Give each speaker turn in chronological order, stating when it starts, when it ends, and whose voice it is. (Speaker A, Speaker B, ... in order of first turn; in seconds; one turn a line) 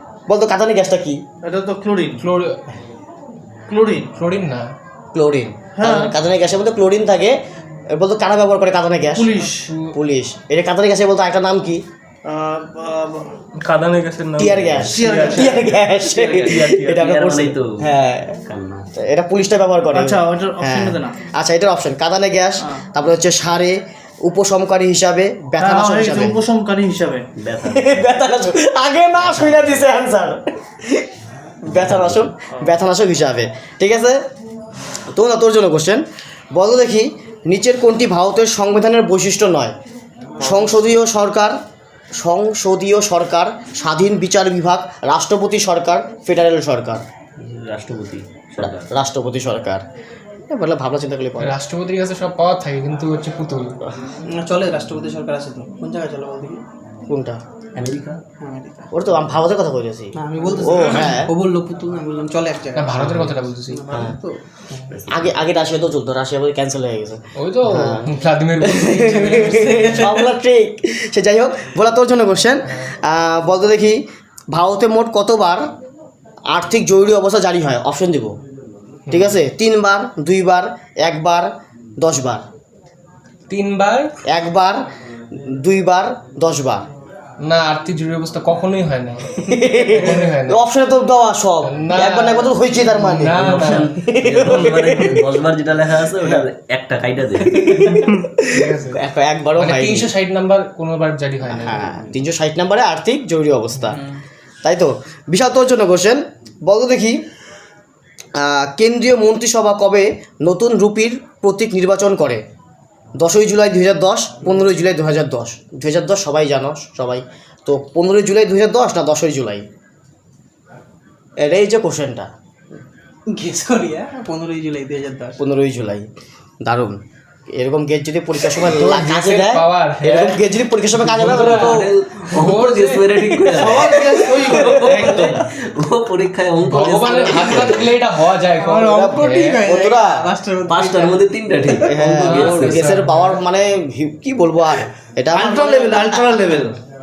Speaker A: 0.3-1.2
Speaker B: 1.4-2.2
Speaker C: 2.2-2.6
Speaker B: 3.7-4.1
Speaker C: 4.2-4.7
Speaker A: 5.1-7.4
Speaker B: 5.8-6.1
Speaker A: 8.0-9.3
Speaker B: 9.1-9.7
Speaker C: 9.4-9.9
Speaker A: 9.9-11.8
Speaker B: 12.2-13.3
Speaker D: 13.6-15.8
Speaker A: 14.4-18.4
Speaker E: 14.6-14.9
Speaker B: 14.8-16.7
Speaker D: 16.5-17.1
Speaker E: 16.9-17.9
Speaker E: 18.5-18.9
Speaker A: 18.9-26.4
Speaker B: 19.9-21.2
Speaker B: 25.6-27.2
Speaker E: 27.4-28.0
Speaker A: 27.6-31.0
Speaker E: 29.2-29.7
Speaker A: 31.6-34.2
Speaker E: 31.8-32.2
Speaker A: 35.1-39.7
Speaker B: 40.4-40.7
Speaker A: 40.4-41.5
Speaker A: 42.2-47.0
Speaker E: 47.4-48.9
Speaker A: 48.6-49.8
Speaker A: 50.5-51.5
Speaker C: 51.4-53.7
Speaker F: 54.3-56.6
Speaker A: 57.1-57.4
Speaker E: 57.8-58.2
Speaker F: 58.4-58.9
Speaker A: 58.9-61.3
Speaker F: 60.1-64.4
Speaker C: 62.7-63.8
Speaker A: 62.9-63.3
Speaker A: 63.9-64.2
Speaker E: 64.9-65.4
Speaker A: 65.1-68.1
Speaker C: 67.4-69.9
Speaker A: 68.6-74.0
Speaker F: 68.8-70.3
Speaker A: 74.5-75.7
Speaker A: 76.5-78.3
Speaker C: 79.1-79.4
Speaker A: 79.1-81.5
Speaker A: 82.0-82.4
Speaker C: 83.5-84.1
Speaker A: 84.3-84.8
Speaker A: 85.6-86.8
Speaker C: 87.4-89.4
Speaker A: 89.4-95.3
Speaker C: 89.9-90.6
Speaker C: 91.6-93.9
Speaker E: 93.3-98.0
Speaker A: 97.7-100.1
Speaker C: 98.5-99.0
Speaker C: 99.6-101.8
Speaker A: 101.5-104.0
Speaker A: 104.6-107.2
Speaker A: 108.4-112.4
Speaker A: 113.2-119.7
Speaker A: 121.4-122.3
Speaker F: 123.3-125.4
Speaker A: 125.4-126.1
Speaker A: 126.6-127.0
Speaker A: 127.5-131.9
Speaker C: 128.6-130.4
Speaker E: 131.0-137.9
Speaker C: 131.2-133.8
Speaker B: 133.5-135.4
Speaker C: 136.6-139.6
Speaker F: 138.6-141.8
Speaker A: 138.8-140.2
Speaker E: 140.7-142.9
Speaker A: 141.8-146.2
Speaker C: 142.1-143.4
Speaker B: 145.3-146.8